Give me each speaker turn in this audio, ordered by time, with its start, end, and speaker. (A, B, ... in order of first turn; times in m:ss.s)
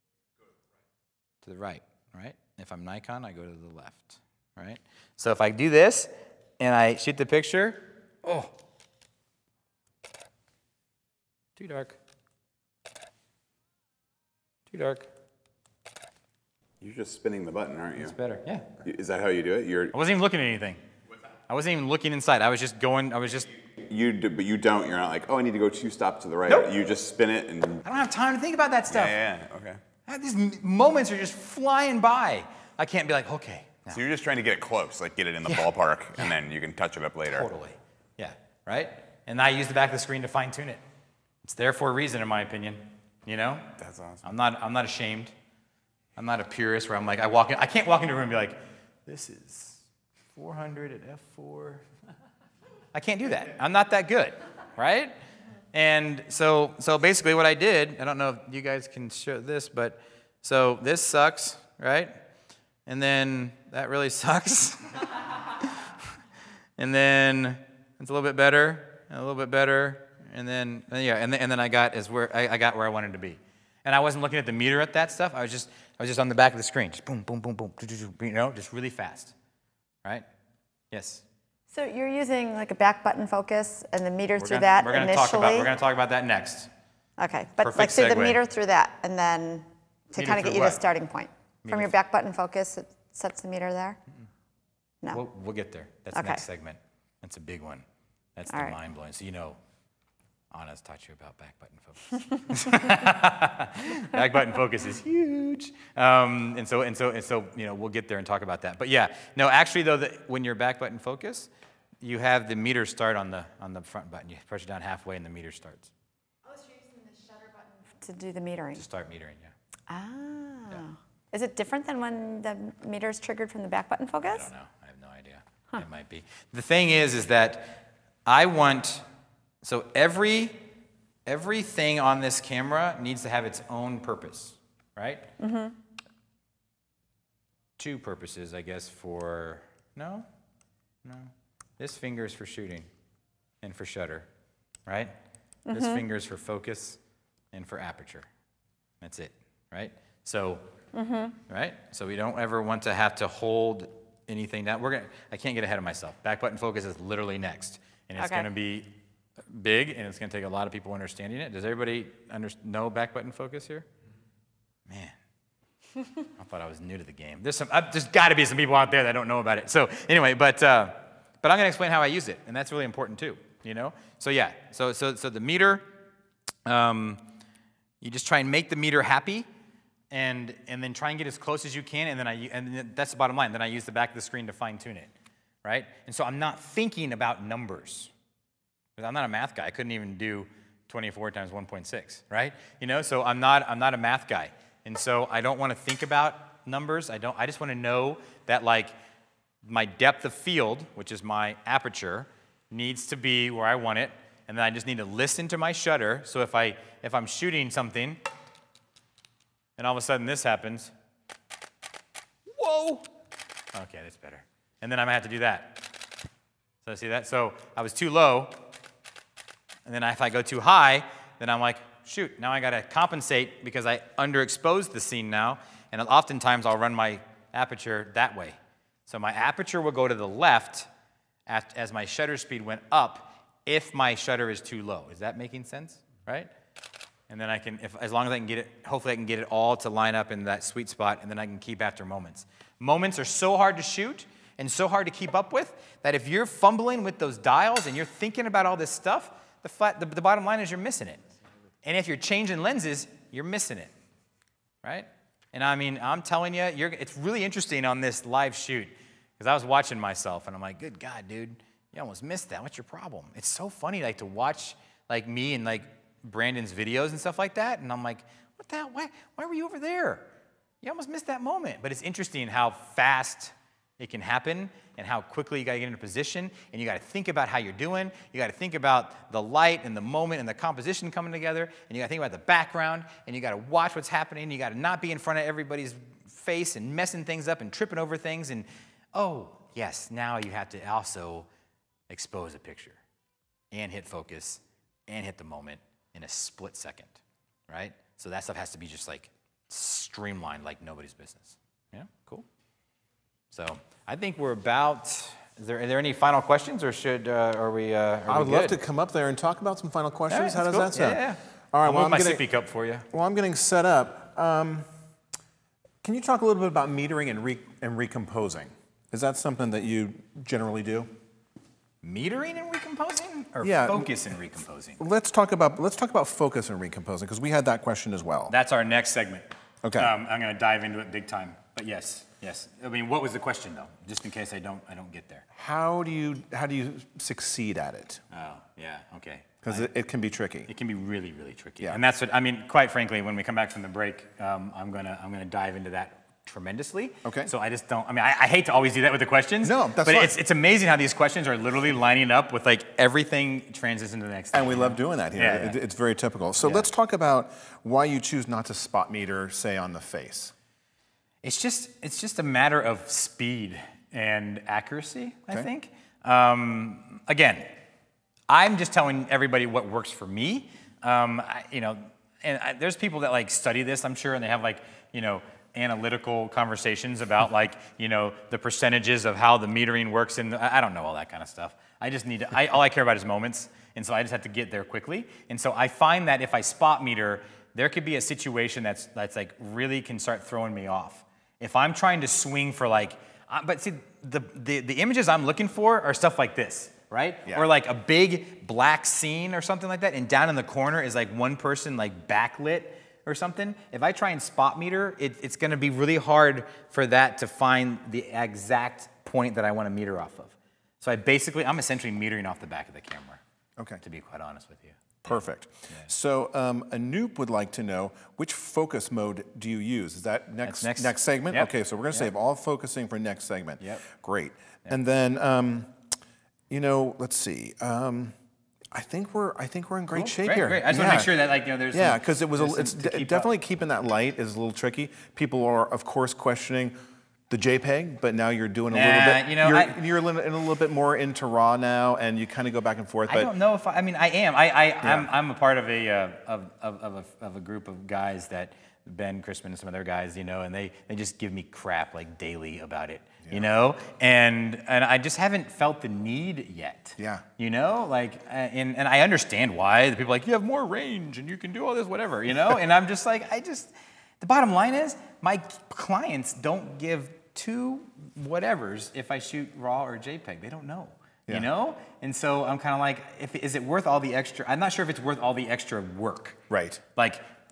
0:01.4-0:08.5 A
0:11.6-0:12.0 A
0:14.7-0:15.1 A
0:16.8-0:18.2 B
0:18.0-0:18.7 A
0:18.8-0:19.9 B
0:19.9-0:20.8 A
0:21.5-0:23.5 A
0:23.8-0:27.8 B
0:26.5-0:26.7 A
0:27.8-0:29.2 A
0:28.9-0:29.8 B
0:30.1-0:34.0 A
0:33.9-0:37.5 B
0:37.3-0:40.8 A
0:41.4-0:45.3 A
0:43.8-0:44.2 B
0:46.2-0:49.8 A
0:50.4-0:51.8 A
0:52.9-0:55.2 A
0:55.7-1:02.2 A
1:02.9-1:05.7 A
1:06.8-1:19.3 A
1:20.9-1:21.2 A
1:21.7-1:25.7 C
1:24.4-1:26.7 A
1:27.2-1:34.0 C
1:27.6-1:28.4 A
1:30.2-1:30.9 A
1:31.6-1:32.0 A
1:35.1-1:37.8 A
1:36.1-1:36.4 C
1:38.4-1:39.6 A
1:40.5-1:51.5 A
1:52.0-1:55.9 A
1:56.5-1:58.8 C
1:58.8-1:59.5 A
1:59.9-2:04.5 C
2:04.3-2:09.0 A
2:09.6-2:10.6 A
2:11.3-2:15.3 A
2:15.4-2:15.8 C
2:17.8-2:20.3 A
2:21.0-2:22.9 A
2:23.6-2:24.3 A
2:24.9-2:25.2 A
2:25.7-2:26.0 C
2:25.7-2:27.0 A
2:27.5-2:28.3 A
2:29.0-2:30.6 A
2:30.9-2:31.4 C
2:31.5-2:38.9 A
2:38.2-2:38.5 C
2:39.5-2:43.9 A
2:44.9-2:45.2 A
2:46.4-2:55.9 A
2:56.6-2:57.2 A
2:58.0-2:59.5 A
3:00.1-3:05.1 A
3:05.6-3:08.1 A
3:09.0-3:18.9 A
3:19.6-3:28.2 A
3:29.8-3:30.9 A
3:32.5-3:33.1 A
3:33.7-3:35.9 A
3:36.8-3:38.6 A
3:39.9-3:50.9 A
3:51.5-3:56.5 A
3:57.3-4:11.2 A
4:11.8-4:13.9 A
4:14.8-4:30.3 A
4:30.8-4:51.5 A
4:52.1-4:53.0 A
4:53.7-5:02.5 A
5:03.5-5:08.8 A
5:08.3-5:12.5 D
5:10.3-5:13.0 A
5:13.1-5:14.9 D
5:16.0-5:21.1 D
5:22.0-5:25.0 A
5:23.6-5:24.1 D
5:25.0-5:28.5 D
5:28.5-5:35.4 A
5:29.8-5:30.1 D
5:35.6-5:38.2 D
5:38.3-5:39.9 A
5:39.6-5:40.7 D
5:40.7-5:55.8 A
5:47.2-5:47.5 D
5:49.6-5:50.3 D
5:54.5-6:00.5 D
5:56.6-5:56.9 A
6:01.4-6:07.7 A
6:08.5-6:53.4 A
6:54.0-6:56.1 A
6:55.2-7:06.0 D
7:00.6-7:02.3 A
7:06.7-7:08.4 D
7:08.9-7:11.4 D
7:10.1-7:13.5 A
7:11.9-7:16.9 D
7:17.5-7:23.5 D
7:18.9-7:20.0 A
7:23.3-7:56.6 A
7:25.0-7:25.3 D
7:37.2-7:37.4 D
7:56.7-7:57.0 D
7:57.2-7:57.4 A